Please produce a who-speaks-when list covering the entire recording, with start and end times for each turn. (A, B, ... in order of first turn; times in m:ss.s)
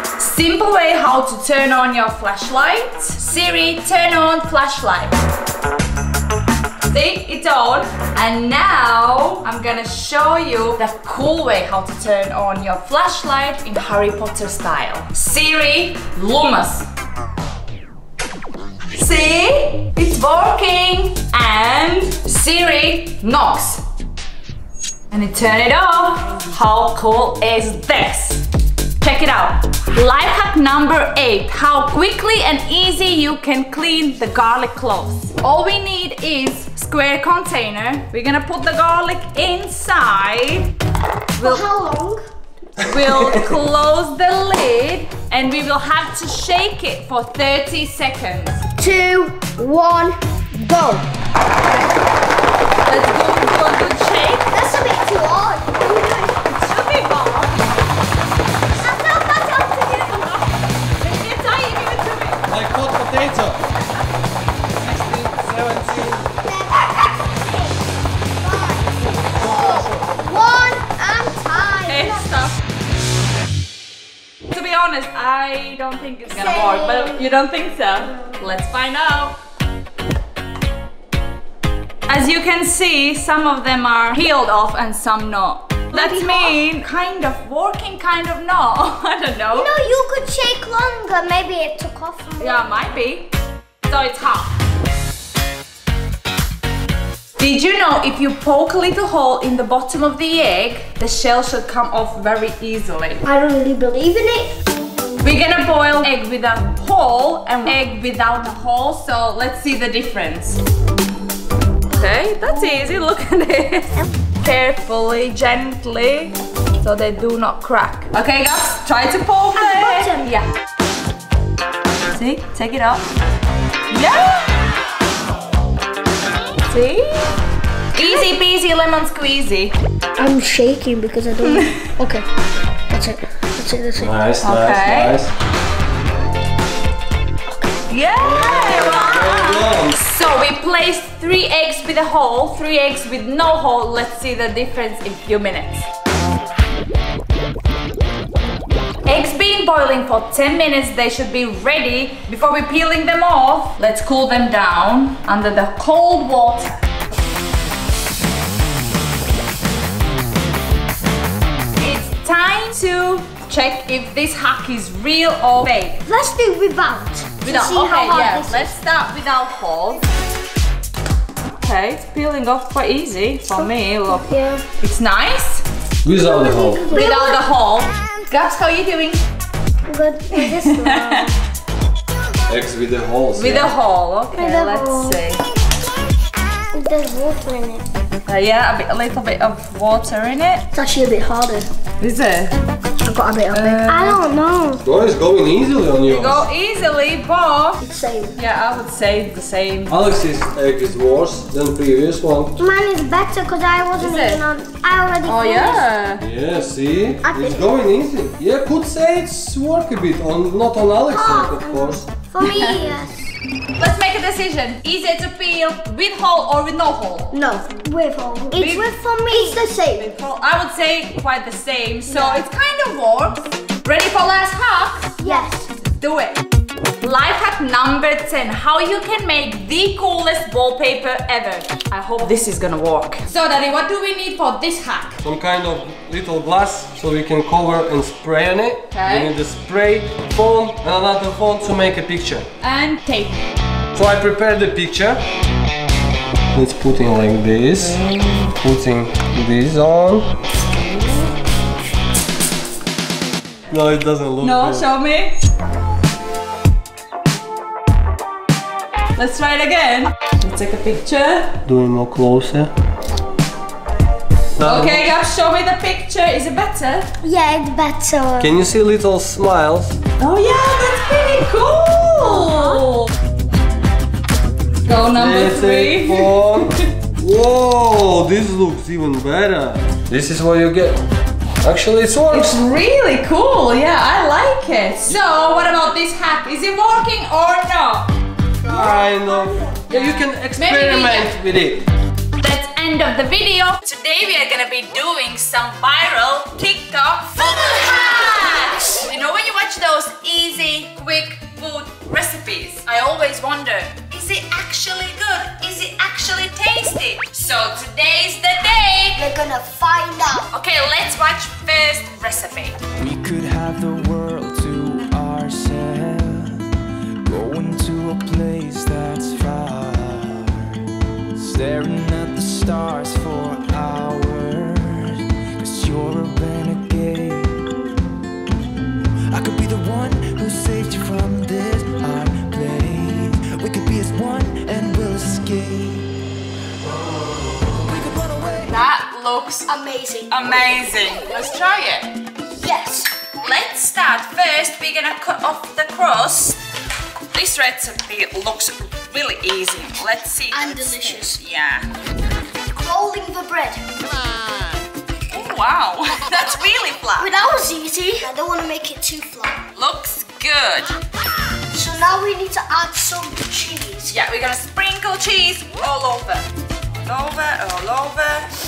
0:00.2-0:05.2 A
0:06.9-0:16.9 A
0:19.0-0:23.8 A
0:25.1-0:28.4 A
0:29.0-0:40.7 A
0:41.4-0:42.2 B
0:41.4-0:41.7 A
0:42.8-0:48.6 A
0:48.8-0:51.1 B
0:52.9-0:54.5 A
0:54.5-0:56.5 B
0:56.4-0:57.6 A
0:58.8-1:00.5 B
1:01.0-1:02.4 A
1:02.5-1:03.6 C
1:04.8-1:06.1 A
1:05.6-1:06.2 C
1:06.4-1:07.8 B
1:08.4-1:12.3 B
1:11.9-1:12.6 A
1:14.5-1:19.4 A
1:16.3-1:17.2 B
1:22.1-1:29.7 A
1:25.9-1:26.6 B
1:29.5-1:32.7 B
1:32.4-1:33.3 A
1:33.8-1:34.5 A
1:37.4-1:43.2 A
1:43.2-1:44.5 B
1:45.2-1:50.6 A
1:51.9-2:00.5 A
1:59.6-2:00.3 B
2:02.1-2:03.0 A
2:03.9-2:04.5 A
2:06.7-2:07.2 A
2:08.0-2:08.3 B
2:08.0-2:09.7 A
2:10.2-2:12.2 B
2:11.4-2:11.8 A
2:12.9-2:14.1 B
2:14.0-2:15.3 C
2:14.4-2:15.2 A
2:17.9-2:25.9 A
2:18.2-2:20.0 C
2:29.1-2:36.8 A
2:41.8-2:46.0 A
2:46.0-2:48.8 B
2:47.4-2:50.0 A
2:51.6-2:54.3 A
2:53.5-2:54.6 B
2:54.8-2:55.6 A
2:56.0-2:56.9 C
2:56.1-2:57.4 B
2:56.9-2:59.2 A
2:59.9-3:01.3 B
3:00.3-3:01.3 A
3:02.5-3:03.7 C
3:03.4-3:05.4 A
3:04.3-3:05.2 B
3:06.7-3:07.8 B
3:08.3-3:10.6 A
3:10.7-3:11.7 B
3:12.0-3:12.5 A
3:13.0-3:14.8 B
3:13.5-3:14.2 A
3:14.8-3:16.4 C
3:16.1-3:17.8 A
3:17.8-3:18.4 B
3:18.4-3:20.0 A
3:19.9-3:22.6 C
3:22.6-3:25.9 B
3:24.0-3:24.4 A
3:25.3-3:26.2 A
3:26.2-3:32.1 C
3:27.2-3:27.6 B
3:31.1-3:33.3 B
3:32.4-3:32.8 A
3:33.8-3:37.4 A
3:37.3-3:40.0 B
3:38.5-3:45.4 A
3:42.1-3:42.5 B
3:45.2-3:45.7 B
3:46.0-3:46.4 A
3:47.0-3:55.2 A
3:55.2-4:02.5 C
3:58.9-3:59.3 A
4:02.6-4:03.4 A
4:04.0-4:05.2 C
4:06.5-4:10.3 C
4:07.8-4:08.5 A
4:10.7-4:11.2 A
4:13.7-4:14.9 C
4:14.4-4:15.4 A
4:19.2-4:21.6 A
4:21.7-4:22.7 C
4:24.6-4:25.0 C
4:24.6-4:27.1 A
4:27.2-4:28.6 B
4:28.4-4:30.0 C
4:30.2-4:33.1 A
4:32.5-4:32.8 B
4:34.8-4:36.3 A
4:35.1-4:41.0 C
4:41.6-4:42.6 C
4:42.3-4:48.1 A
4:48.6-4:50.2 B
4:48.7-4:51.8 C
4:49.9-4:51.3 A
4:52.4-5:09.2 A
4:57.4-4:59.0 B
5:09.2-5:10.5 B
5:10.5-5:12.8 A
5:13.0-5:16.7 D
5:17.2-5:20.8 D
5:21.4-5:27.7 D
5:29.3-5:36.1 D
5:37.8-5:38.8 D
5:38.7-5:39.7 A
5:39.7-5:40.4 B
5:40.3-5:42.1 A
5:42.4-5:43.1 B
5:43.4-5:46.6 A
5:47.3-5:51.9 A
5:50.5-5:51.4 B
5:52.7-5:53.8 B
5:55.3-5:57.3 A
5:57.2-5:59.6 B
5:59.8-6:01.0 A
6:01.7-6:04.2 B
6:04.1-6:06.5 A
6:07.0-6:08.5 A